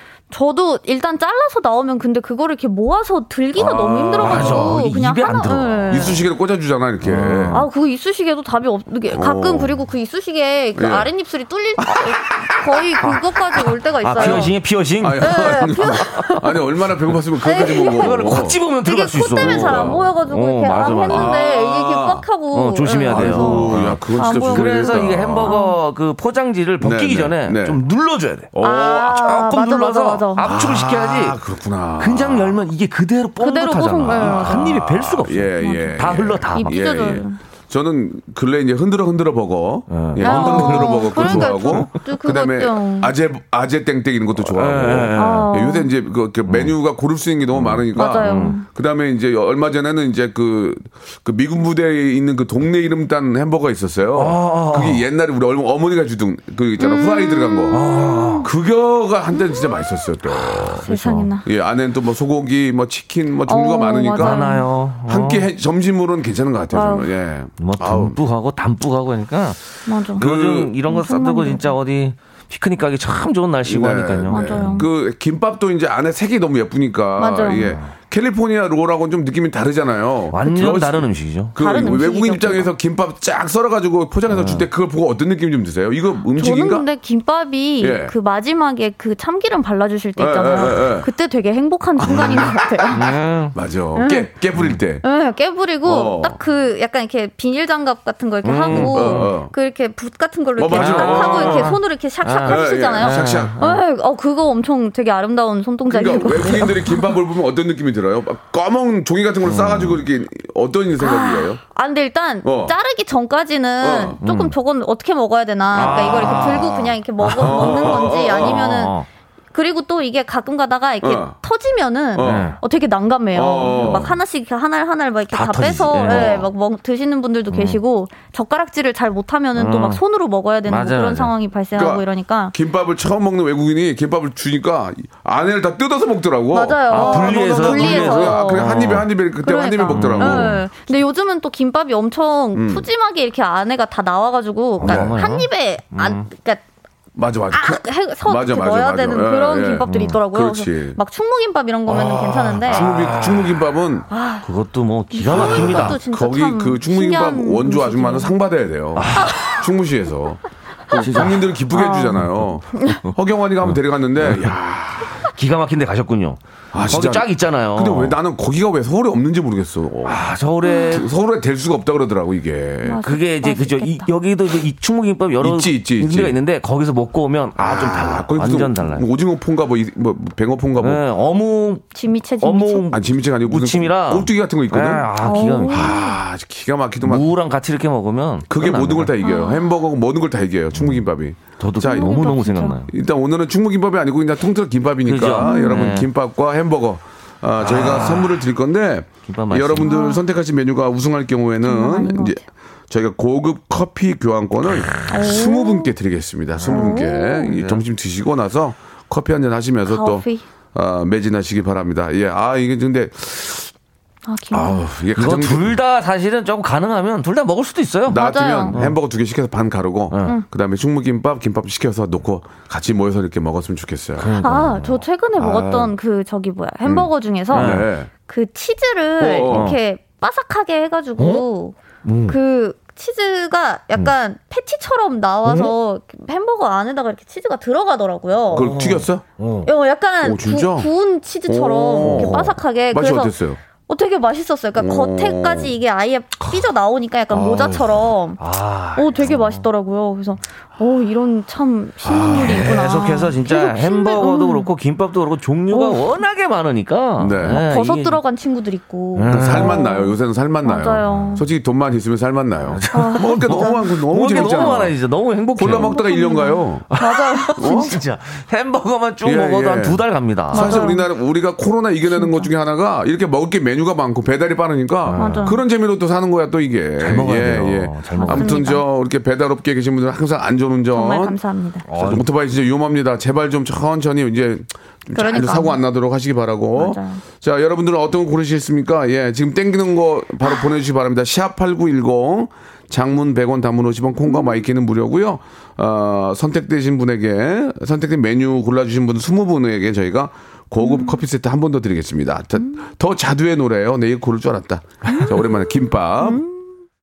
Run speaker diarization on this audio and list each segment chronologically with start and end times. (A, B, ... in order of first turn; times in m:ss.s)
0:00.3-0:06.2 A
0:03.6-0:04.8 B
0:04.2-0:06.2 C
0:05.9-0:07.6 B
0:07.0-0:07.7 C
0:07.5-0:14.5 A
0:09.1-0:09.8 B
0:10.8-0:11.1 B
0:11.8-0:12.1 B
0:14.0-0:16.1 C
0:14.2-0:18.6 B
0:15.2-0:16.4 A
0:17.4-0:25.7 A
0:18.0-0:21.3 C
0:19.3-0:20.1 B
0:20.8-0:22.2 B
0:22.5-0:28.5 C
0:23.1-0:25.6 B
0:26.8-0:27.8 B
0:28.5-0:29.4 B
0:28.6-0:30.4 A
0:29.2-0:31.4 C
0:30.4-0:32.6 B
0:32.0-0:36.7 C
0:33.4-0:34.8 A
0:34.0-0:57.8 B
0:35.6-0:36.0 A
0:36.5-0:37.4 A
0:39.9-0:41.9 C
0:40.2-0:43.1 A
0:44.4-0:45.5 C
0:45.2-0:45.9 A
0:46.4-0:46.7 C
0:47.5-0:48.6 C
0:47.9-0:48.6 A
0:54.2-0:55.0 C
0:56.8-0:58.5 A
0:57.7-0:58.5 C
0:58.4-1:00.9 B
0:59.3-0:59.8 A
1:00.6-1:01.3 C
1:00.9-1:01.4 A
1:01.4-1:04.4 B
1:03.5-1:04.6 A
1:04.2-1:05.4 C
1:05.0-1:08.2 B
1:06.7-1:07.1 A
1:07.6-1:14.8 C
1:09.9-1:10.2 A
1:10.2-1:10.7 B
1:10.9-1:11.6 A
1:13.6-1:26.8 B
1:14.3-1:14.9 A
1:17.2-1:17.7 A
1:20.3-1:21.5 C
1:21.6-1:22.7 A
1:24.3-1:24.7 C
1:26.3-1:33.0 A
1:27.8-1:28.1 B
1:30.2-1:31.1 B
1:32.0-1:35.0 B
1:32.9-1:33.5 C
1:33.9-1:34.3 A
1:35.0-1:47.1 A
1:35.8-1:36.4 B
1:38.4-1:39.3 C
1:38.7-1:39.5 B
1:40.6-1:41.8 B
1:40.7-1:43.8 C
1:42.4-1:43.6 B
1:45.9-1:51.6 B
1:46.2-1:46.7 C
1:49.4-1:50.0 C
1:51.0-1:59.0 A
1:52.4-1:52.7 B
1:53.8-1:54.2 B
1:54.2-1:54.5 C
1:55.7-1:56.8 B
1:55.7-1:59.0 C
1:57.4-1:58.7 B
1:59.5-2:12.5 A
2:01.0-2:01.4 B
2:02.1-2:02.6 B
2:02.2-2:02.6 C
2:03.4-2:04.1 B
2:03.6-2:04.1 C
2:05.3-2:06.5 C
2:06.1-2:06.4 B
2:07.5-2:07.8 C
2:09.6-2:10.0 C
2:10.7-2:11.3 C
2:11.7-2:20.7 B
2:16.5-2:18.7 A
2:16.9-2:19.1 C
2:19.4-2:26.6 A
2:19.9-2:20.6 C
2:22.5-2:22.8 B
2:24.8-2:26.3 C
2:24.8-2:25.2 B
2:27.1-2:31.0 B
2:27.5-2:32.9 A
2:29.9-2:30.2 C
2:31.9-2:34.1 B
2:32.7-2:33.6 C
2:34.1-2:34.5 A
2:34.4-2:36.0 C
2:35.1-2:38.3 A
2:35.3-2:45.2 B
2:39.0-2:39.6 C
2:39.2-2:39.5 A
2:40.9-2:41.6 C
2:41.7-2:42.2 A
2:42.2-2:43.1 C
2:42.7-2:43.0 A
2:43.6-2:44.5 C
2:45.2-2:48.2 C
2:46.7-2:50.2 B
2:50.0-2:51.1 C
2:50.6-2:51.0 A
2:50.9-2:53.0 B
2:52.8-2:54.1 A
2:53.0-2:59.0 C
2:55.4-2:56.3 B
2:57.6-3:01.0 B
3:00.8-3:01.8 C
3:01.9-3:02.9 A
3:02.4-3:05.9 C
3:02.9-3:05.1 B
3:05.2-3:06.2 A
3:05.7-3:07.3 B
3:07.0-3:09.1 C
3:08.5-3:12.3 B
3:09.2-3:09.6 A
3:10.7-3:11.0 C
3:11.6-3:12.9 C
3:11.9-3:12.8 A
3:12.9-3:33.7 B
3:15.0-3:16.1 C
3:15.4-3:15.8 A
3:17.6-3:18.4 C
3:19.3-3:19.9 C
3:19.8-3:20.2 A
3:21.6-3:22.4 A
3:25.1-3:25.9 A
3:26.6-3:27.8 C
3:26.7-3:27.5 A
3:29.9-3:30.4 A
3:34.3-3:34.8 A
3:34.5-3:35.8 B
3:35.1-3:38.2 C
3:38.1-3:44.4 B
3:38.1-3:38.8 A
3:44.2-3:45.9 C
3:44.4-3:51.8 A
3:46.8-3:48.1 B
3:47.5-3:47.9 C
3:49.2-3:49.8 B
3:49.5-3:49.8 C
3:51.2-3:51.4 C
3:52.0-3:52.3 C
3:52.3-3:58.7 A
3:58.5-3:59.2 B
3:58.5-3:59.7 C
3:59.6-4:03.3 A
4:00.2-4:00.9 B
4:01.5-4:03.6 B
4:02.0-4:02.5 C
4:03.9-4:08.4 A
4:04.8-4:05.7 B
4:07.3-4:08.0 B
4:08.4-4:09.6 C
4:08.9-4:14.7 A
4:12.0-4:12.7 B
4:12.1-4:18.2 C
4:15.7-4:16.1 A
4:17.2-4:17.6 B
4:17.5-4:21.4 A
4:19.2-4:19.8 C
4:19.3-4:25.0 B
4:21.0-4:21.4 C
4:22.7-4:25.9 C
4:22.9-4:23.8 A
4:24.3-4:24.7 A
4:25.6-4:26.9 B
4:25.8-4:28.0 A
4:26.9-4:30.8 C
4:27.6-4:27.9 B
4:29.2-4:30.0 B
4:30.5-4:41.4 B
4:30.5-4:31.0 A
4:32.1-4:32.5 A
4:35.0-4:35.5 C
4:35.2-4:35.6 A
4:37.0-4:38.6 C
4:38.1-4:38.8 A
4:40.9-4:41.8 A
4:41.9-4:42.2 C
4:41.9-5:06.4 B
4:45.1-4:45.8 A
4:46.8-4:47.2 A
4:54.3-4:54.6 A
5:00.8-5:01.2 A
5:06.2-5:06.6 A